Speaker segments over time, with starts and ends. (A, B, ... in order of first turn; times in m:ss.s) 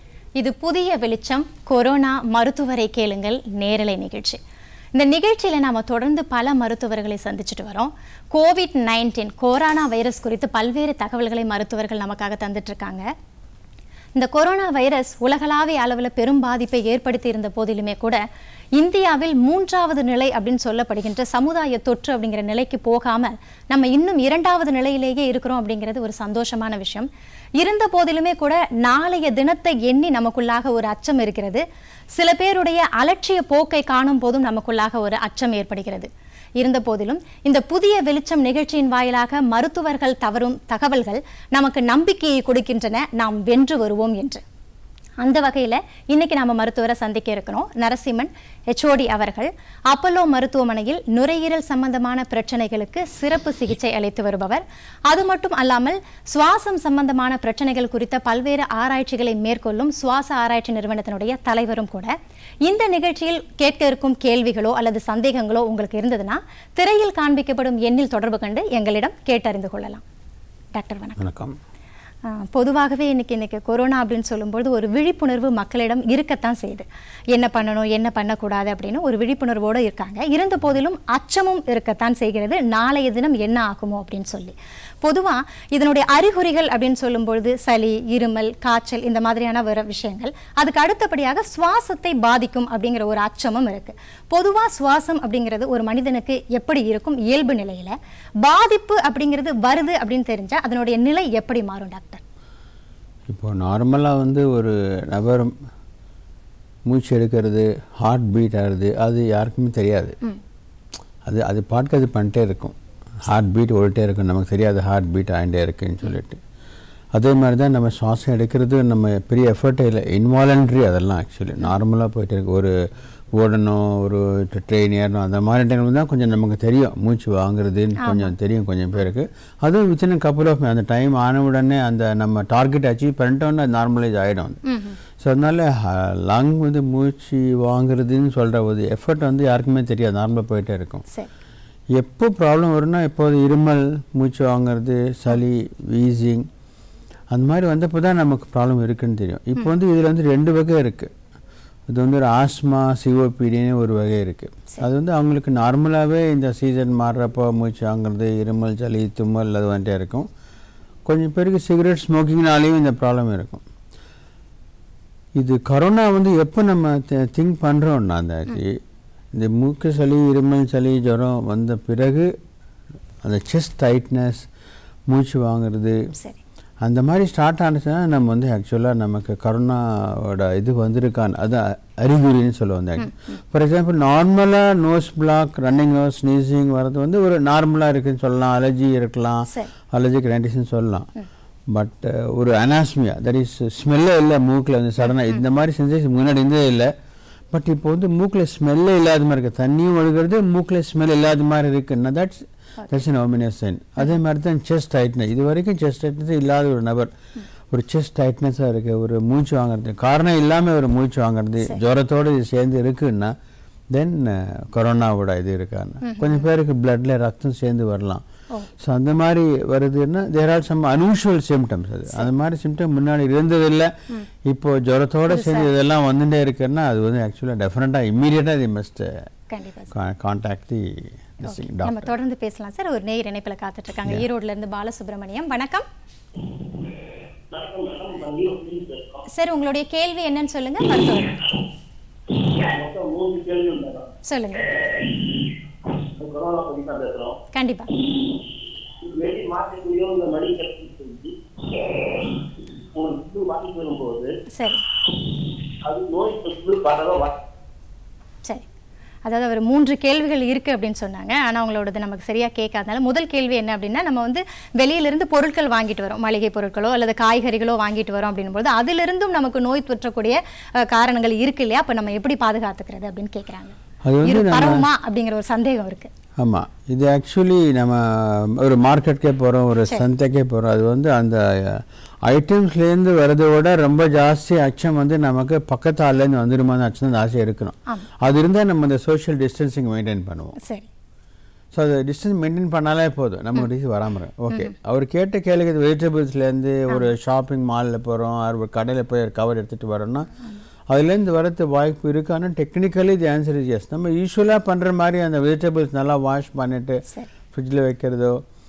0:00.4-0:04.4 A
0:04.9-0:13.0 A
0:14.2-0:18.2 A
0:18.8-0:27.1 A
0:27.6-0:31.6 A
0:32.2-0:44.4 A
0:45.2-1:02.1 A
1:02.6-1:10.0 A
1:10.7-1:11.2 A
1:11.2-1:11.6 B
1:12.3-1:42.2 A
1:43.3-1:45.5 B
1:46.8-1:50.2 B
1:51.2-1:56.4 B
1:57.1-2:02.7 B
2:03.3-2:14.6 B
2:08.0-2:08.3 A
2:14.6-2:15.0 A
2:15.2-2:21.0 B
2:21.9-2:26.5 B
2:27.3-2:31.1 B
2:31.9-2:40.3 B
2:41.0-2:43.6 B
2:45.3-2:48.8 B
2:49.3-2:52.3 B
2:53.2-2:54.5 B
2:55.1-2:56.0 B
2:56.8-3:11.1 B
3:11.7-3:16.9 B
3:17.5-3:27.1 B
3:27.7-3:33.3 B
3:33.9-3:38.2 B
3:36.0-3:36.4 A
3:38.8-3:43.9 B
3:44.4-3:49.2 B
3:45.3-3:45.7 A
3:49.5-3:49.9 A
3:49.9-3:52.1 B
3:51.4-3:55.8 A
3:57.5-3:59.2 C
3:59.3-4:01.3 A
4:02.6-4:04.1 C
4:04.2-4:04.7 A
4:06.2-4:07.4 C
4:07.5-4:07.9 A
4:09.0-4:12.3 C
4:12.9-4:14.3 C
4:14.5-4:14.8 A
4:15.8-4:17.4 C
4:19.2-4:36.1 A
4:34.0-4:34.9 B
4:36.4-4:50.6 B
4:50.6-4:50.9 A
4:51.7-5:00.3 B
5:00.9-5:08.4 B